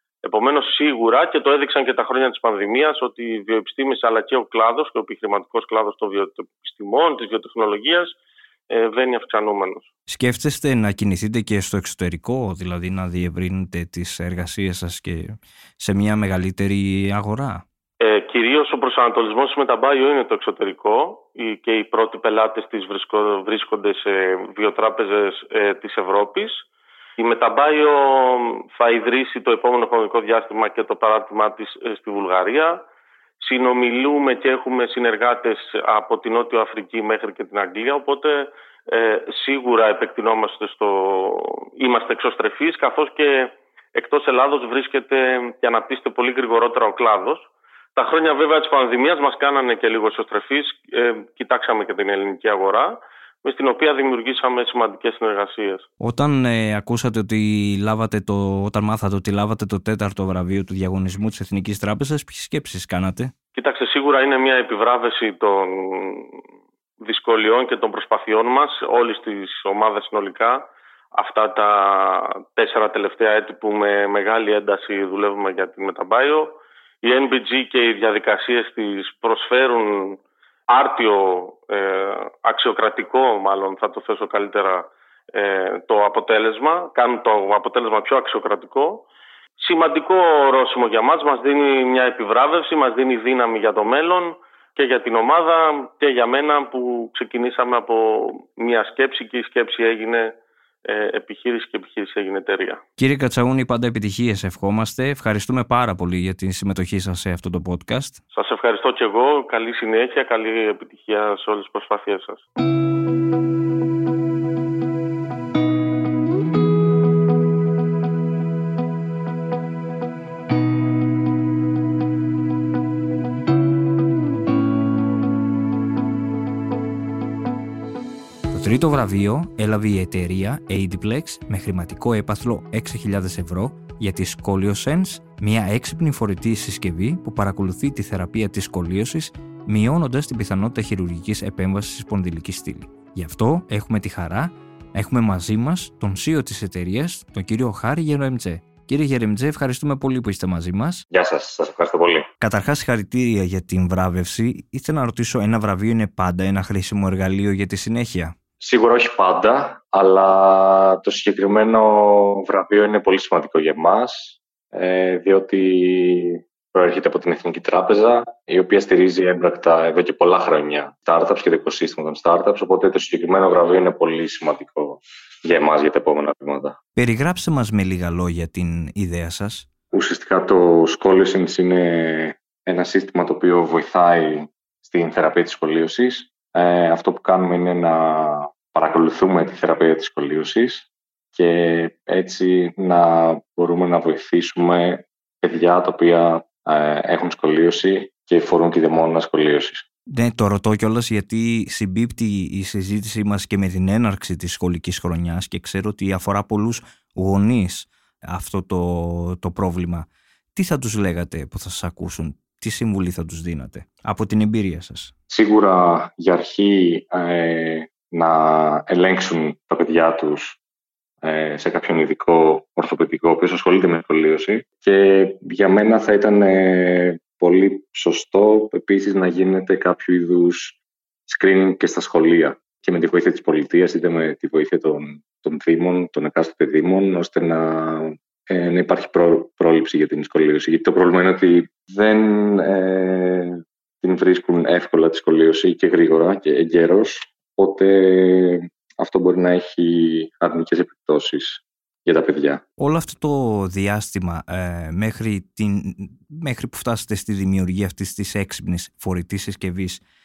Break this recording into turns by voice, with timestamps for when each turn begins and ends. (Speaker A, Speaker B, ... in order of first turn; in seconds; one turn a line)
Speaker A: 0.2-8.1
Speaker A: 8.7-9.9
Speaker B: 10.1-17.6
Speaker A: 18.0-26.6
Speaker A: 27.2-32.8
Speaker A: 33.4-55.9
Speaker B: 56.0-63.3
Speaker A: 63.5-66.4
Speaker A: 67.0-80.2
Speaker A: 80.7-89.0
Speaker A: 89.6-100.3
Speaker A: 100.8-102.8
Speaker B: 103.0-108.2
Speaker A: 108.3-112.4
Speaker B: 128.5-151.0
Speaker C: 151.1-152.3
Speaker B: 152.4-158.3
Speaker C: 158.6-176.8
Speaker B: 176.9-179.7
Speaker C: 179.9-199.8
Speaker B: 200.1-215.1
Speaker C: 215.3-220.6
Speaker C: 221.2-252.6
Speaker B: 252.8-260.0